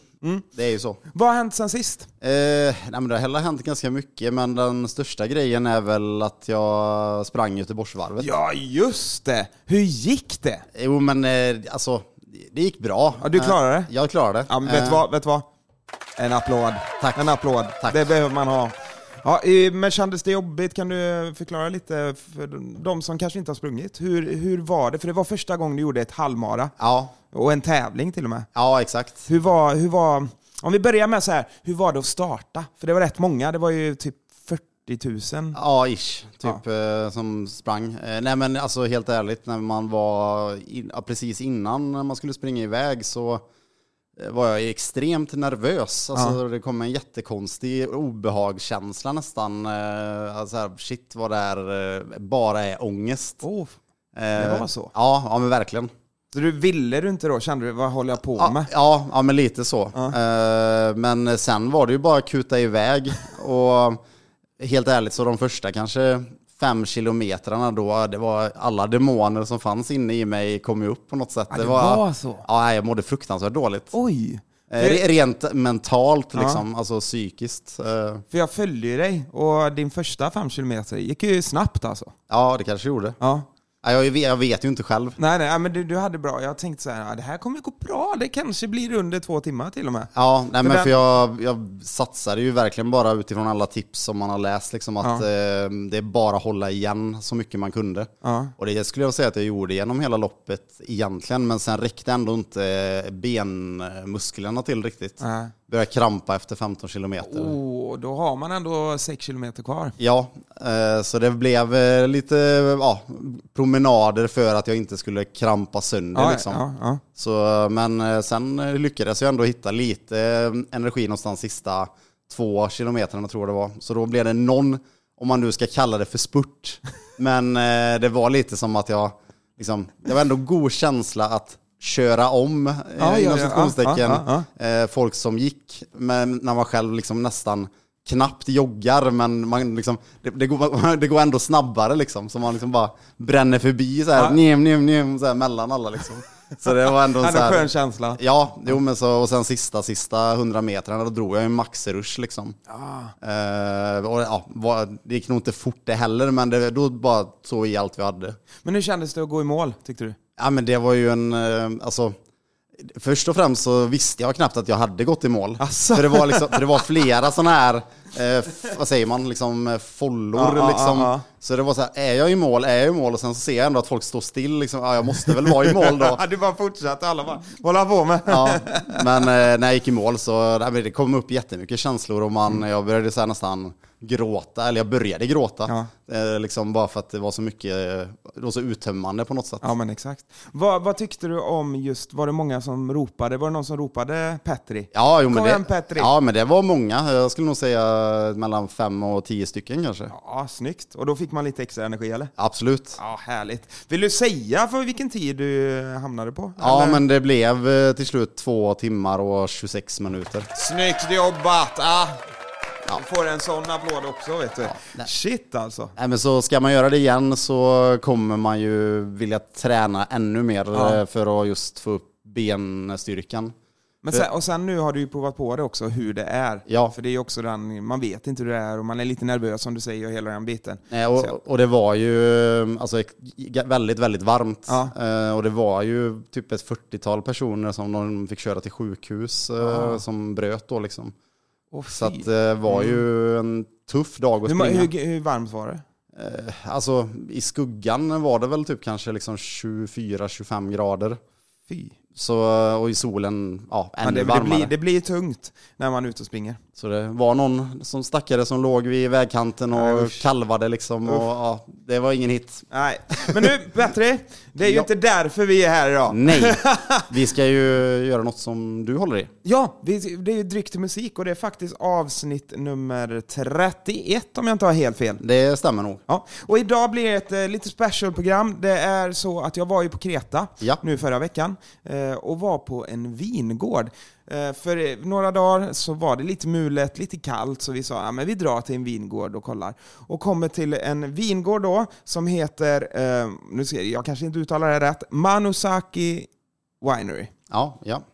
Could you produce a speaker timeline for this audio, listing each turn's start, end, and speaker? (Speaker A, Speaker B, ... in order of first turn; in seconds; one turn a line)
Speaker A: 0.5-1.0
Speaker B: 1.1-2.1
Speaker A: 2.2-8.3
Speaker B: 8.2-10.7
Speaker A: 10.8-15.0
Speaker B: 13.2-13.9
Speaker B: 14.5-15.5
Speaker B: 16.2-26.7
Speaker A: 17.0-18.0
Speaker A: 26.8-27.1
Speaker B: 27.3-28.5
Speaker A: 28.6-29.2
Speaker B: 29.3-35.6
Speaker A: 35.5-43.5
Speaker A: 44.2-53.5
Speaker B: 53.4-53.8
Speaker A: 54.1-55.9
Speaker B: 54.4-54.9
Speaker B: 56.3-58.7
Speaker A: 58.3-64.0
Speaker A: 64.6-73.9
Speaker B: 71.5-72.5
Speaker B: 73.9-75.0
Speaker A: 74.7-78.2
Speaker B: 76.3-76.6
Speaker B: 78.3-82.1
Speaker A: 82.3-83.2
Speaker B: 83.2-83.5
Speaker A: 83.8-85.2
Speaker B: 85.2-90.9
Speaker A: 90.1-107.5
Speaker B: 98.2-98.5
Speaker B: 105.2-105.5
Speaker B: 107.2-110.0
Speaker A: 110.0-116.6
Speaker B: 116.2-117.0
Speaker A: 117.2-152.6
Speaker B: 133.0-134.5
Speaker B: 146.9-148.2
Speaker B: 152.7-153.1
Speaker A: 153.2-158.4
Speaker B: 158.6-160.2
Speaker A: 160.4-162.2
Speaker A: 162.8-176.2
Speaker B: 165.6-166.8
Speaker B: 170.3-171.2
Speaker B: 175.6-179.3
Speaker A: 178.3-189.7
Speaker B: 189.6-196.1
Speaker A: 194.9-200.1
Speaker B: 200.1-202.3
Speaker A: 202.4-203.0
Speaker B: 203.0-207.0
Speaker A: 206.6-210.5
Speaker B: 210.5-212.2
Speaker B: 212.9-215.9
Speaker A: 214.7-215.1
Speaker A: 216.0-223.5
Speaker B: 220.7-221.0
Speaker B: 224.0-231.3
Speaker A: 226.7-226.9
Speaker A: 230.9-241.1
Speaker B: 234.7-234.9
Speaker B: 239.6-240.0
Speaker B: 241.7-243.0
Speaker A: 241.9-244.9
Speaker B: 244.4-245.8
Speaker A: 246.2-251.2
Speaker B: 251.7-252.0
Speaker A: 252.2-254.7
Speaker B: 254.0-256.6
Speaker A: 256.8-262.7
Speaker B: 259.7-260.2
Speaker B: 262.7-267.1
Speaker A: 264.6-264.9
Speaker A: 266.1-269.3
Speaker B: 269.4-275.2
Speaker A: 275.2-276.0
Speaker B: 276.1-296.3
Speaker B: 296.8-297.3
Speaker A: 297.5-298.0